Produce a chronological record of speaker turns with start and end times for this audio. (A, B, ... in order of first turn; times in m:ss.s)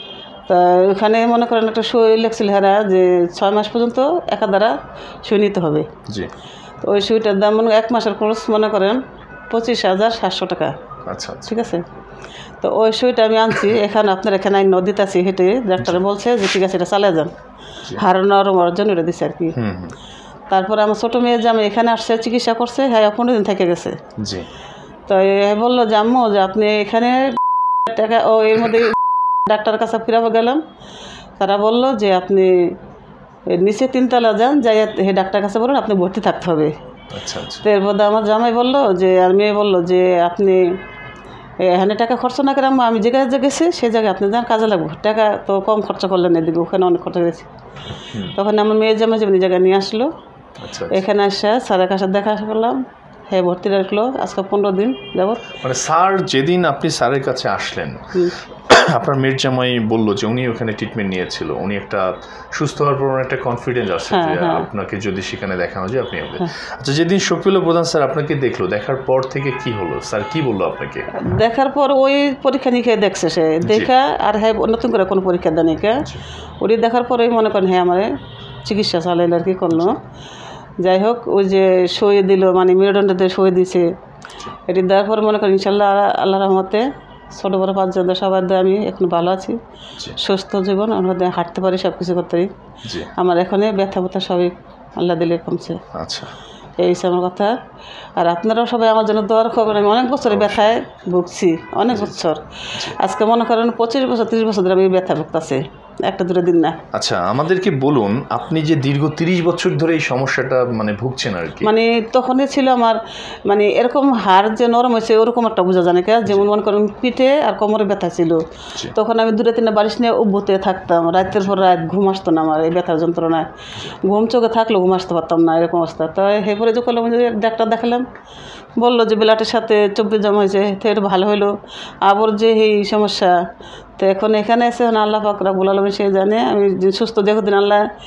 0:00.5-0:05.9 A
0:06.8-0:09.0 A
0:09.5-0:10.7 A
0:11.1-0:11.5 B
0:11.5-0:11.8 A
0:12.6-0:17.3 A
0:18.0-0:19.5 A
0:19.5-0:19.9 B
0:20.5-0:23.9 A
0:24.2-0:24.5 B
0:25.1-0:27.3 A
0:27.8-0:30.6 A
0:31.4-0:32.7 A
0:33.5-0:36.7 A
0:37.1-0:37.6 B
0:37.6-0:40.6 A
0:41.7-0:47.5 A
0:48.0-0:48.4 B
0:48.3-0:50.1 A
0:50.6-0:51.0 B
0:50.9-0:52.8 A
0:53.3-0:55.4 A
0:55.6-0:58.1 B
0:58.7-1:11.1 B
1:04.1-1:04.7 A
1:11.2-1:16.0 A
1:16.6-1:18.1 A
1:18.6-1:20.0 A
1:20.8-1:23.9 A
1:24.7-1:29.6 A
1:30.2-1:32.5 A
1:32.8-1:33.1 B
1:33.2-1:35.8 A
1:35.9-1:36.3 B
1:36.8-1:37.5 A
1:38.2-1:42.4 A
1:40.3-1:40.7 B
1:41.9-1:42.2 B
1:42.9-1:46.8 A
1:46.9-1:51.7 B
1:51.6-1:58.4 A
1:58.9-2:03.5 A
2:04.0-2:08.0 A
2:08.8-2:11.5 A
2:12.0-2:13.3 A
2:14.0-2:17.8 A